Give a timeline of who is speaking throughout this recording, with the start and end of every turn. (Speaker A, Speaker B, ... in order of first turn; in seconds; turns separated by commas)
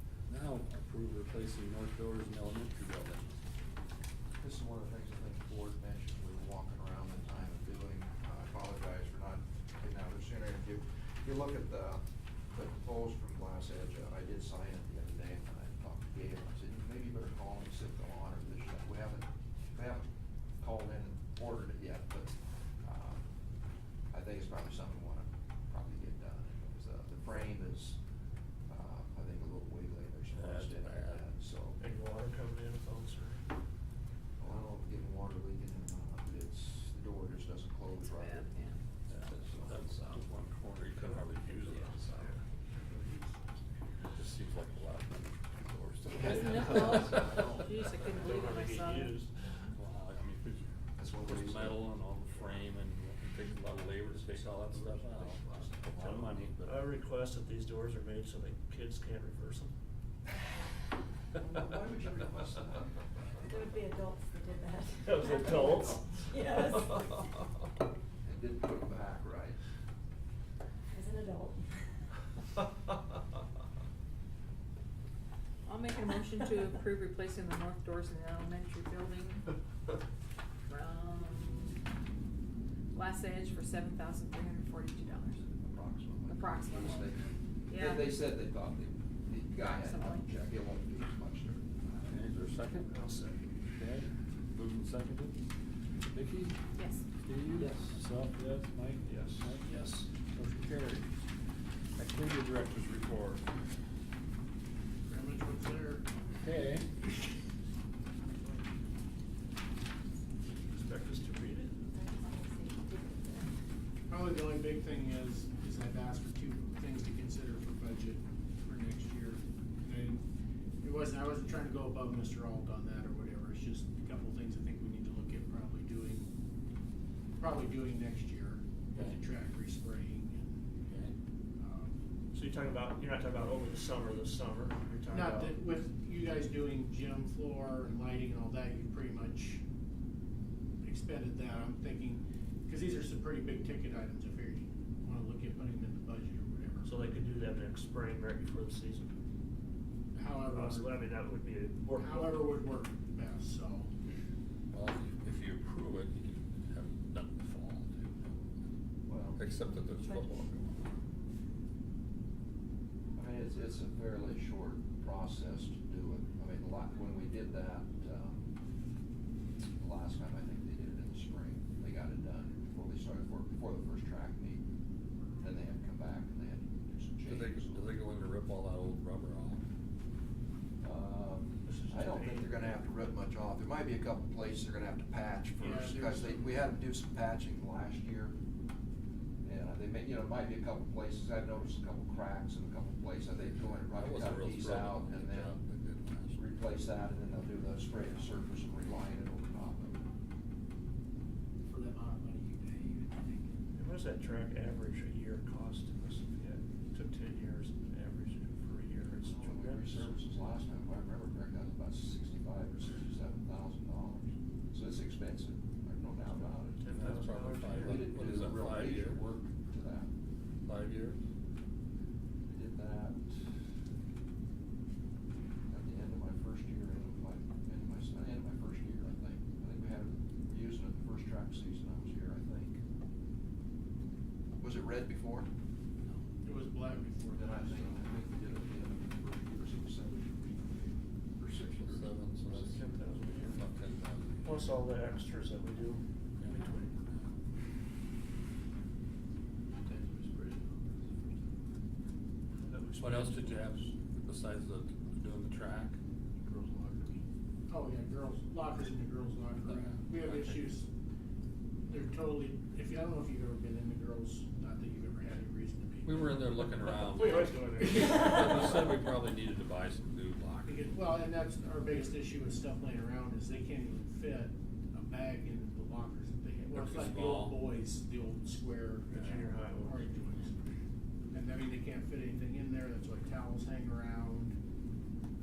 Speaker A: 0.3-3.4, Speaker B: 4.4-20.1, Speaker B: 20.6-23.2, Speaker B: 24.1-28.0, Speaker B: 28.7-31.8, Speaker A: 30.3-31.2, Speaker C: 31.8-33.5, Speaker B: 34.4-38.6, Speaker D: 37.9-38.8, Speaker A: 39.1-42.3, Speaker B: 39.2-40.2, Speaker C: 40.9-44.1, Speaker A: 44.1-47.6, Speaker B: 46.1-47.8, Speaker D: 46.2-49.2, Speaker C: 48.1-49.7, Speaker A: 49.7-56.9, Speaker B: 51.0-51.9, Speaker C: 54.0-59.7, Speaker B: 61.4-63.8, Speaker E: 63.5-67.0, Speaker C: 65.0-66.2, Speaker B: 68.2-69.6, Speaker E: 70.9-71.7, Speaker D: 75.6-79.5, Speaker D: 80.7-81.8, Speaker D: 82.9-85.4, Speaker B: 85.3-91.7, Speaker D: 86.3-87.1, Speaker D: 87.7-88.0, Speaker D: 89.6-90.3, Speaker A: 92.0-92.9, Speaker C: 92.9-93.4, Speaker A: 93.7-95.4, Speaker A: 96.0-96.6, Speaker D: 96.7-97.0, Speaker A: 97.2-99.6, Speaker C: 99.0-100.1, Speaker A: 100.3-101.1, Speaker A: 102.0-103.4, Speaker F: 105.1-106.0, Speaker A: 106.4-106.9, Speaker C: 110.4-111.8, Speaker E: 111.9-113.5, Speaker F: 114.1-120.2, Speaker F: 120.8-126.3, Speaker F: 127.4-130.6, Speaker A: 128.9-129.2, Speaker A: 130.9-131.1, Speaker F: 131.6-131.9, Speaker C: 132.3-135.6, Speaker F: 135.1-139.6, Speaker F: 140.8-146.9, Speaker C: 146.8-149.2, Speaker F: 150.1-150.9, Speaker C: 150.5-152.5, Speaker F: 152.0-153.9, Speaker A: 154.7-158.4, Speaker B: 159.1-159.5, Speaker A: 159.3-160.9, Speaker B: 163.1-168.5, Speaker B: 169.8-174.6, Speaker B: 175.4-177.9, Speaker A: 177.2-179.6, Speaker B: 180.8-188.3, Speaker C: 181.6-182.8, Speaker F: 185.6-186.5, Speaker B: 189.4-195.6, Speaker A: 193.9-196.4, Speaker B: 196.3-200.0, Speaker F: 201.7-203.5, Speaker C: 203.7-210.1, Speaker B: 209.2-216.9, Speaker C: 216.7-218.1, Speaker A: 216.9-219.2, Speaker B: 217.7-220.1, Speaker A: 220.7-221.2, Speaker B: 222.5-223.4, Speaker B: 225.7-232.8, Speaker B: 234.6-235.5, Speaker F: 236.4-238.1, Speaker B: 237.3-242.1, Speaker A: 241.8-242.9, Speaker C: 242.5-243.6, Speaker A: 243.5-244.7, Speaker C: 244.4-246.9, Speaker A: 246.4-247.3, Speaker C: 252.6-253.9, Speaker A: 253.0-256.0, Speaker F: 257.7-260.9, Speaker A: 259.7-260.7, Speaker F: 261.9-266.4, Speaker A: 266.1-270.9, Speaker C: 266.9-268.9, Speaker F: 267.5-268.0, Speaker F: 270.7-279.2, Speaker A: 276.7-277.6, Speaker C: 279.1-280.1, Speaker F: 279.8-280.7, Speaker F: 281.3-284.5